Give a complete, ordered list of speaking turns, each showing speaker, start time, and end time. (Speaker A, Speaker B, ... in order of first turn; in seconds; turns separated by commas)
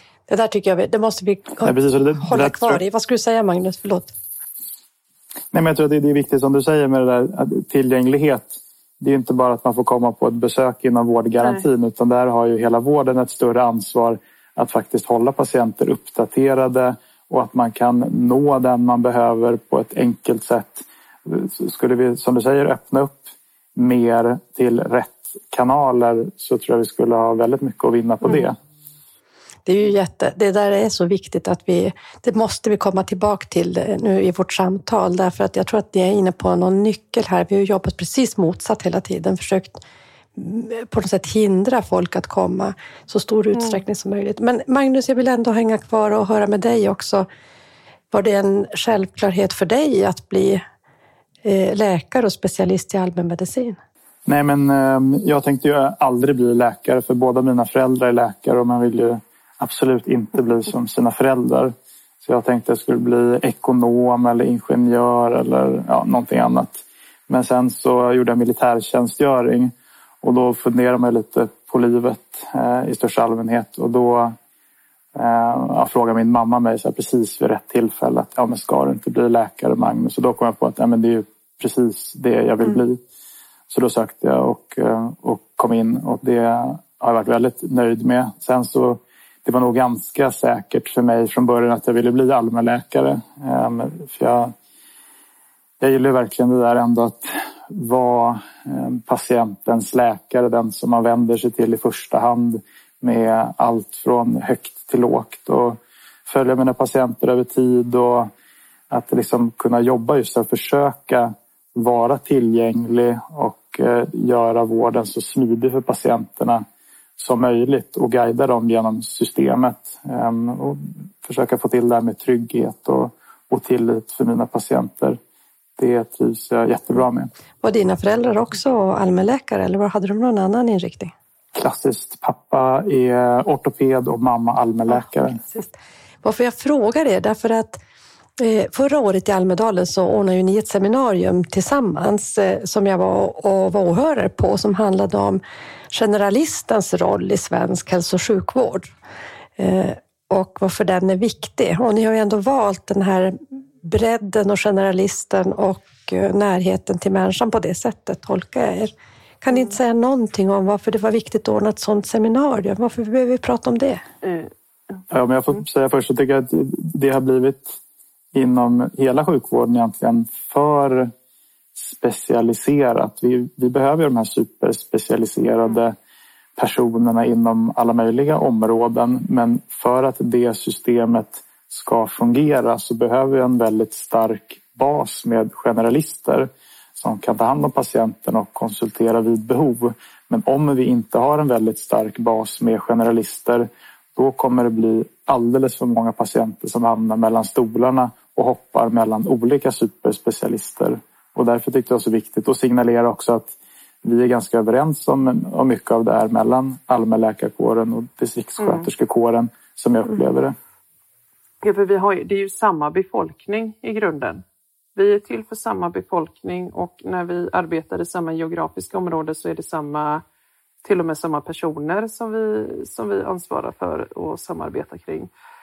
Speaker A: 0.3-4.1, Speaker B: 1.6-2.8, Speaker B: 5.5-28.6, Speaker A: 29.6-39.8, Speaker A: 40.4-47.3, Speaker C: 43.5-43.8, Speaker A: 48.1-50.6, Speaker A: 51.4-53.8, Speaker B: 54.3-74.4, Speaker B: 75.2-83.0, Speaker B: 83.7-94.5, Speaker B: 95.8-108.3, Speaker B: 108.9-116.6, Speaker B: 117.2-125.2, Speaker B: 125.8-127.3, Speaker A: 127.6-131.1, Speaker B: 131.6-135.4, Speaker A: 134.9-137.8, Speaker A: 138.4-148.9, Speaker A: 149.6-164.0, Speaker C: 159.5-159.8, Speaker C: 164.2-165.0, Speaker B: 165.1-167.8, Speaker B: 168.3-171.1, Speaker B: 171.8-175.9, Speaker B: 176.6-210.6, Speaker C: 208.6-208.9, Speaker C: 211.6-214.4, Speaker C: 215.0-220.2, Speaker C: 220.8-225.3